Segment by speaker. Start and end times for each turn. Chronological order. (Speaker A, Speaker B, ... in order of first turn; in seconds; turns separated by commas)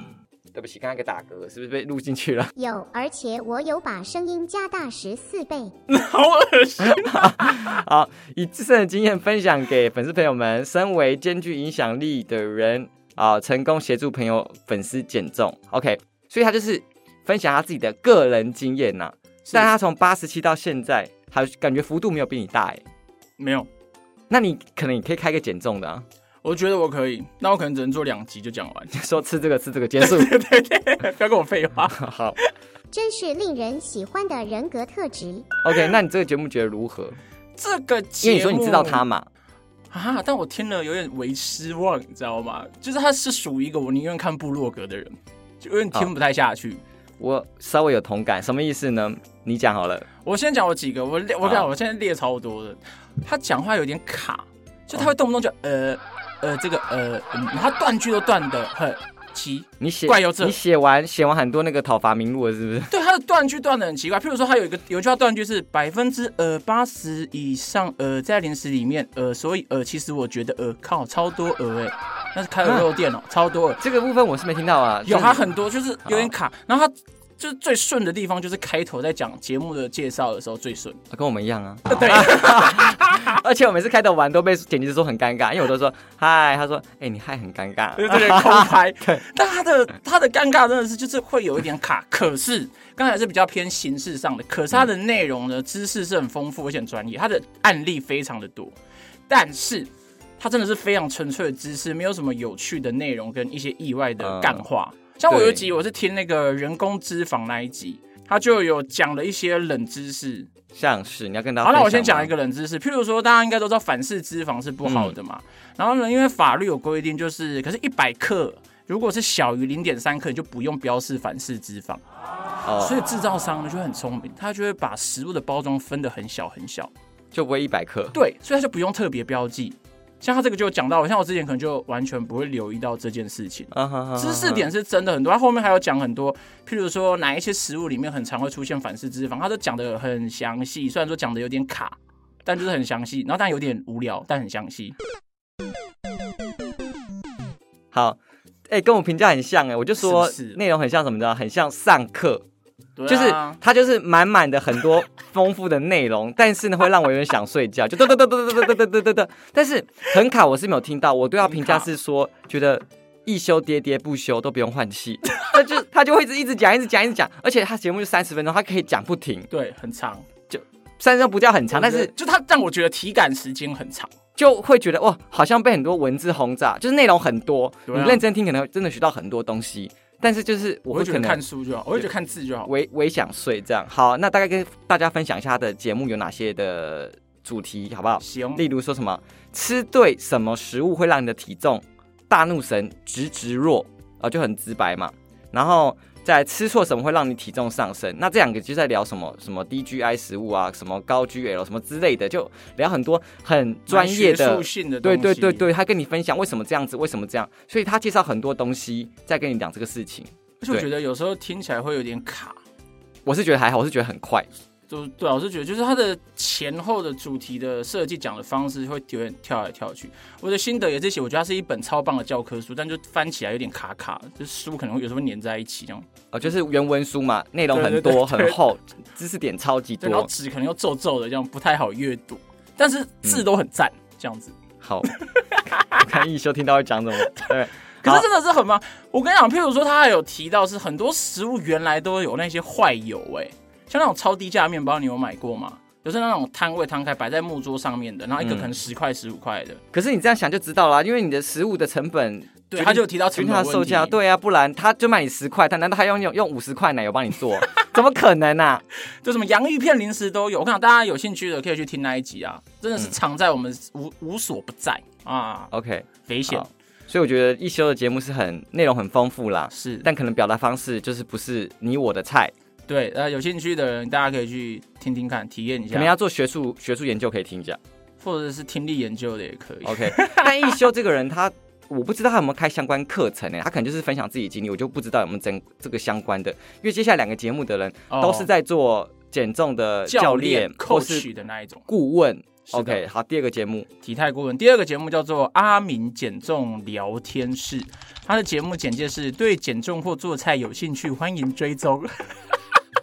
Speaker A: 0.5-2.5, Speaker B: 2.5-5.7, Speaker C: 5.9-7.7, Speaker A: 6.8-22.8, Speaker C: 23.4-23.7, Speaker A: 24.3-26.0, Speaker C: 26.4-28.9, Speaker A: 28.9-30.4, Speaker C: 30.0-32.0, Speaker A: 31.9-32.4, Speaker B: 32.9-35.5, Speaker A: 35.6-37.2, Speaker C: 37.5-39.0, Speaker A: 38.2-39.3, Speaker C: 39.9-46.8, Speaker A: 47.2-50.1, Speaker C: 50.2-60.6, Speaker A: 51.4-51.7, Speaker A: 59.8-62.9, Speaker C: 62.9-73.8, Speaker A: 73.8-75.4, Speaker C: 75.0-81.0, Speaker A: 76.0-76.3, Speaker A: 81.1-89.2, Speaker C: 81.9-83.4, Speaker C: 88.0-98.7, Speaker C: 99.3-110.5, Speaker A: 104.2-104.6, Speaker A: 105.3-105.6, Speaker A: 110.7-112.3, Speaker C: 111.6-122.0, Speaker A: 114.8-115.1, Speaker A: 122.6-123.0, Speaker C: 122.8-126.9, Speaker A: 127.3-128.1, Speaker C: 128.1-144.9, Speaker A: 133.7-134.7, Speaker A: 147.9-148.2, Speaker A: 148.7-152.4, Speaker C: 150.0-150.6, Speaker C: 153.0-153.6, Speaker A: 153.1-169.5, Speaker C: 161.4-161.9, Speaker C: 169.5-170.2, Speaker A: 170.5-172.1, Speaker C: 171.7-174.1, Speaker A: 174.3-181.4, Speaker C: 177.9-178.2, Speaker C: 180.9-182.7, Speaker A: 182.7-210.9, Speaker C: 188.2-188.6, Speaker C: 203.9-205.7, Speaker C: 210.6-212.6, Speaker A: 213.2-214.5, Speaker C: 214.9-226.1, Speaker A: 226.3-230.3, Speaker C: 227.7-228.6, Speaker C: 230.0-234.6, Speaker A: 234.8-235.1, Speaker C: 235.1-236.1, Speaker A: 235.9-238.2, Speaker C: 238.0-249.8, Speaker A: 248.4-248.7, Speaker A: 249.9-258.8, Speaker C: 252.7-254.2, Speaker C: 259.2-265.7, Speaker A: 265.7-272.5, Speaker C: 266.2-266.7, Speaker C: 269.7-270.1, Speaker C: 272.9-276.1, Speaker A: 275.9-277.8, Speaker C: 278.2-280.7, Speaker A: 279.8-291.3, Speaker C: 288.1-288.5, Speaker C: 290.1-291.9, Speaker A: 291.9-293.9, Speaker C: 292.7-293.0, Speaker C: 294.0-302.3